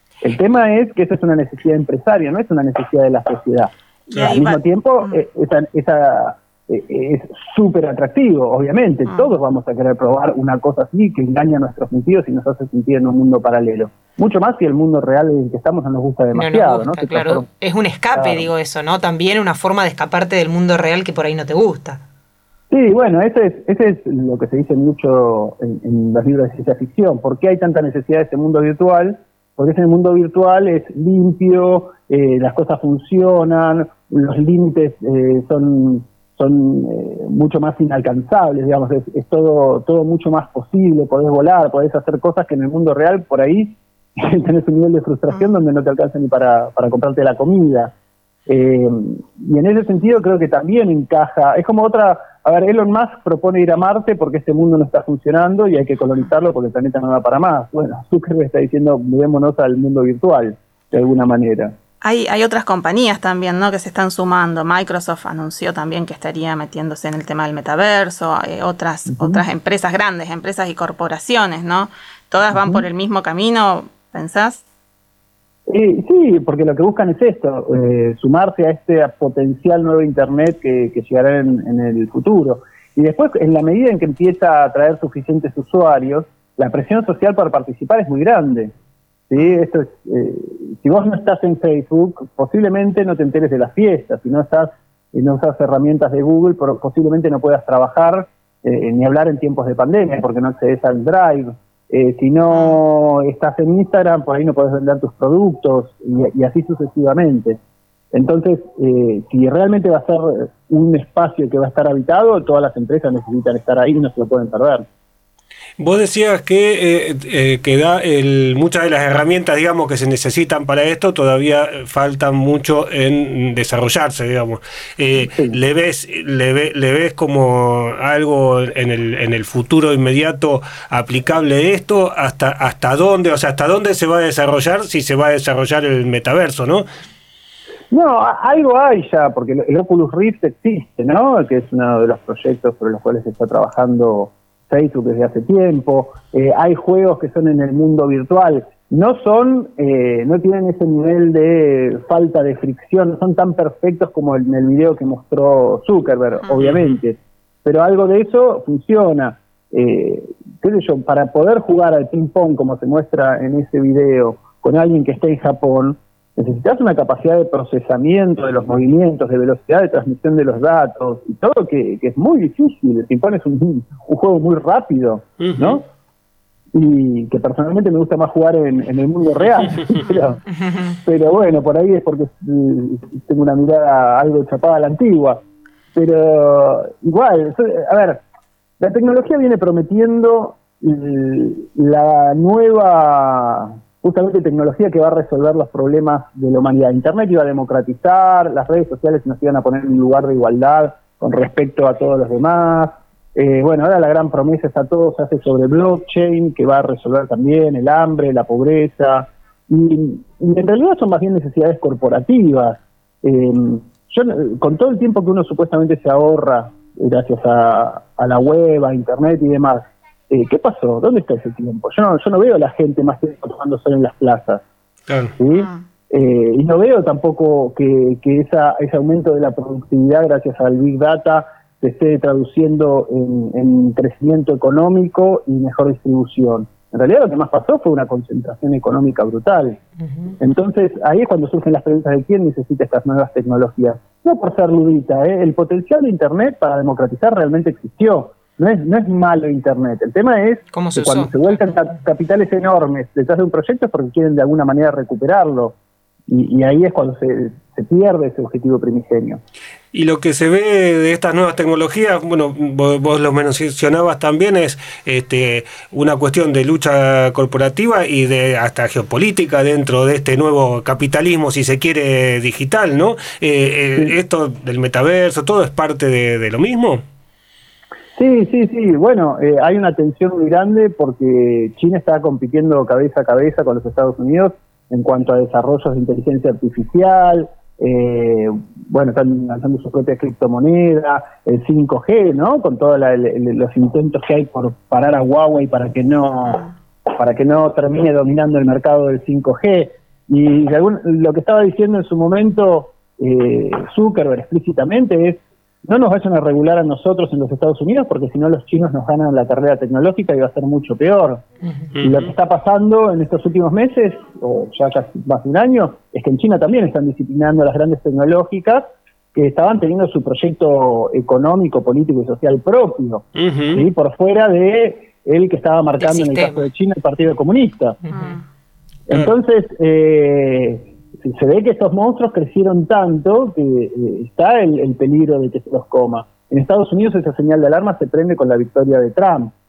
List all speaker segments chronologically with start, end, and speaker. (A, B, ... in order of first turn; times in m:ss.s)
0:00.2-0:17.5 A
0:04.1-0:05.1 B
0:16.3-0:22.0 C
0:18.2-0:18.5 A
0:22.7-0:47.9 A
0:48.5-1:01.8 A
1:02.0-1:14.6 B
1:09.2-1:09.4 A
1:12.5-1:12.8 A
1:15.7-1:28.7 A
1:29.3-1:47.6 A
1:48.1-1:54.9 A
1:55.8-2:16.9 D
2:05.2-2:05.6 A
2:17.9-2:55.9 A
2:36.6-2:37.0 D
2:55.4-2:55.8 D
2:56.7-3:00.4 A
3:01.0-3:05.4 A
3:05.9-3:08.2 A
3:08.8-3:44.6 A
3:45.1-3:45.4 D
3:45.4-3:59.8 A
4:00.4-4:15.8 A
4:10.7-4:11.3 C
4:16.3-4:19.4 A
4:19.9-4:37.0 D
4:38.2-5:11.4 A
5:12.0-5:12.3 D
5:12.0-5:28.0 A
5:23.4-5:23.9 D
5:26.0-5:26.6 C
5:28.1-5:28.4 C
5:29.1-5:39.5 A